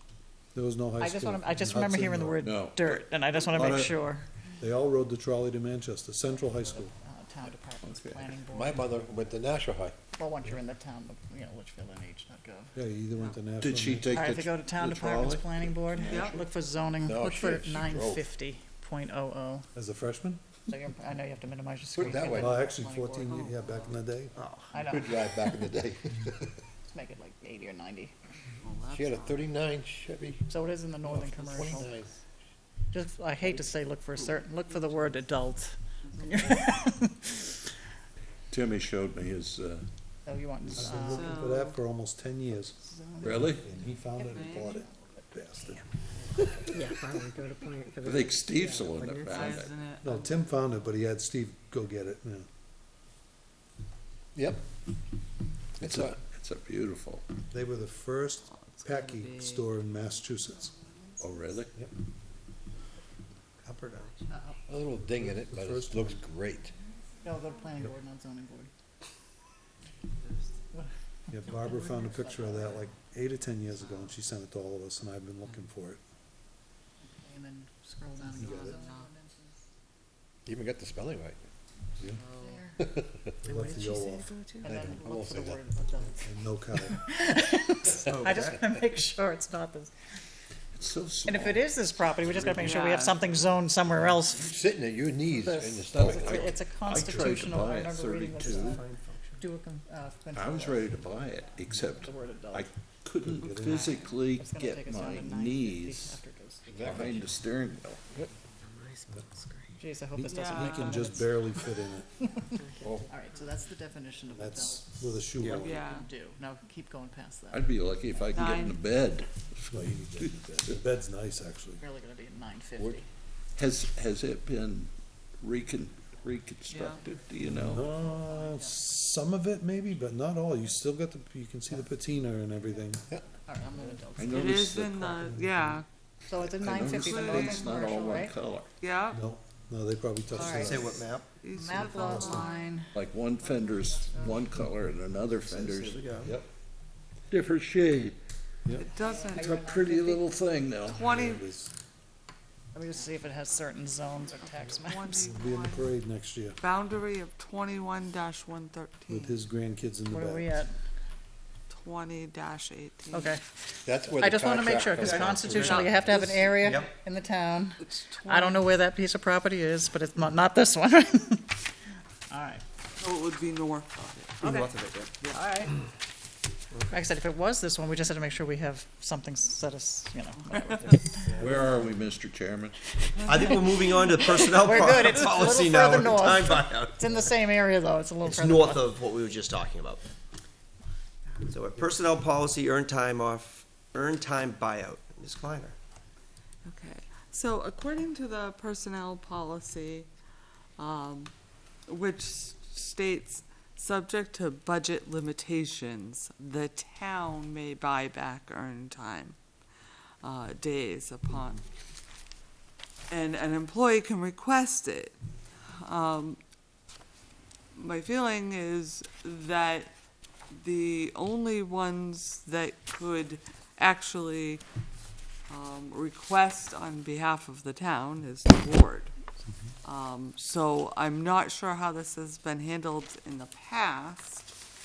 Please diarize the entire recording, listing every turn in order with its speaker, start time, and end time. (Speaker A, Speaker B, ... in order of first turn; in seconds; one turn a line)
Speaker A: 0.5-2.4
Speaker B: 1.0-4.2
Speaker C: 2.4-4.0
Speaker A: 4.6-6.9
Speaker B: 6.8-8.8
Speaker C: 7.8-8.3
Speaker D: 8.5-9.9
Speaker B: 10.1-12.7
Speaker A: 12.7-14.2
Speaker C: 13.6-15.8
Speaker B: 14.1-19.7
Speaker E: 16.0-16.4
Speaker D: 17.0-18.2
Speaker A: 19.7-20.4
Speaker B: 20.7-23.6
Speaker D: 21.9-22.6
Speaker A: 22.1-24.4
Speaker E: 23.3-23.9
Speaker F: 24.4-25.3
Speaker B: 24.7-25.2
Speaker D: 24.8-26.6
Speaker B: 26.9-28.1
Speaker E: 28.5-29.6
Speaker D: 28.9-30.4
Speaker B: 30.5-31.9
Speaker D: 31.0-32.1
Speaker E: 31.2-31.9
Speaker B: 32.9-37.5
Speaker E: 34.2-35.4
Speaker E: 36.0-36.7
Speaker C: 38.5-39.9
Speaker B: 40.2-41.4
Speaker A: 40.8-45.9
Speaker E: 41.0-41.8
Speaker B: 42.8-43.5
Speaker C: 43.2-43.6
Speaker E: 44.2-44.8
Speaker B: 44.2-45.1
Speaker G: 46.7-49.6
Speaker C: 48.0-49.7
Speaker E: 49.3-50.4
Speaker A: 50.0-52.5
Speaker D: 54.4-54.6
Speaker C: 55.8-57.3
Speaker D: 55.8-56.2
Speaker A: 57.5-60.8
Speaker E: 58.5-59.7
Speaker C: 61.2-61.8
Speaker F: 63.6-64.1
Speaker D: 64.7-66.7
Speaker A: 65.2-66.2
Speaker B: 67.2-68.7
Speaker A: 71.3-76.0
Speaker B: 71.5-72.8
Speaker B: 77.0-79.6
Speaker E: 78.3-79.1
Speaker A: 78.3-78.8
Speaker D: 80.5-81.4
Speaker E: 82.0-82.7
Speaker B: 82.4-82.8
Speaker D: 82.8-83.3
Speaker A: 83.4-85.1
Speaker F: 83.5-84.7
Speaker B: 84.6-89.9
Speaker D: 84.9-85.6
Speaker A: 86.2-87.0
Speaker F: 88.0-88.6
Speaker C: 90.7-91.7
Speaker B: 91.2-94.6
Speaker E: 92.6-93.2
Speaker D: 94.4-96.5
Speaker B: 95.3-98.8
Speaker C: 95.9-98.8
Speaker F: 98.4-99.4
Speaker B: 99.4-101.0
Speaker C: 100.3-106.2
Speaker B: 102.0-102.7
Speaker A: 103.2-103.9
Speaker E: 103.4-104.1
Speaker B: 104.4-107.0
Speaker D: 106.7-107.3
Speaker C: 106.8-108.1
Speaker B: 109.8-111.4
Speaker A: 110.1-112.1
Speaker E: 110.3-111.3
Speaker B: 112.2-118.7
Speaker A: 114.3-115.8
Speaker E: 115.5-116.1
Speaker C: 117.5-120.8
Speaker E: 118.3-118.8
Speaker A: 119.7-121.8
Speaker B: 121.8-123.0
Speaker C: 123.5-127.9
Speaker E: 126.7-127.0
Speaker A: 127.5-133.0
Speaker B: 128.0-128.8
Speaker B: 133.4-134.7
Speaker C: 134.2-135.3
Speaker E: 134.3-135.8
Speaker A: 135.2-135.8
Speaker B: 136.3-138.3
Speaker C: 136.4-138.7
Speaker E: 136.9-137.9
Speaker E: 138.8-139.2
Speaker A: 139.1-141.0
Speaker E: 140.3-142.6
Speaker B: 140.3-140.9
Speaker F: 140.4-141.3
Speaker B: 141.5-144.5
Speaker A: 141.7-142.5
Speaker C: 142.9-146.0
Speaker F: 145.4-146.3
Speaker A: 146.2-146.5
Speaker C: 147.3-148.2
Speaker B: 148.8-150.2
Speaker E: 148.8-149.6
Speaker C: 149.3-151.1
Speaker G: 149.9-150.2
Speaker E: 150.9-151.4
Speaker A: 150.9-151.7
Speaker B: 152.7-155.3
Speaker E: 154.8-155.9
Speaker A: 155.2-156.6
Speaker E: 156.6-159.4
Speaker A: 159.1-160.5
Speaker B: 160.1-160.8
Speaker E: 161.7-163.3
Speaker B: 163.1-163.4
Speaker D: 163.8-166.1
Speaker B: 164.1-171.6
Speaker F: 165.0-165.7
Speaker E: 165.5-166.8
Speaker F: 166.6-166.9
Speaker E: 167.8-168.7
Speaker B: 172.3-172.6
Speaker E: 173.0-175.8
Speaker F: 174.4-175.1
Speaker B: 176.9-181.5
Speaker A: 181.4-181.7
Speaker C: 181.4-182.8
Speaker B: 183.1-188.8
Speaker E: 183.2-183.9
Speaker F: 183.2-187.1
Speaker F: 188.2-190.0
Speaker F: 191.5-195.8
Speaker E: 196.6-200.1
Speaker E: 200.8-201.3
Speaker E: 201.9-209.4
Speaker E: 210.2-211.6
Speaker E: 213.1-215.1
Speaker E: 215.7-216.4
Speaker E: 217.7-219.9
Speaker E: 220.5-224.6
Speaker E: 225.5-229.1
Speaker E: 229.8-234.5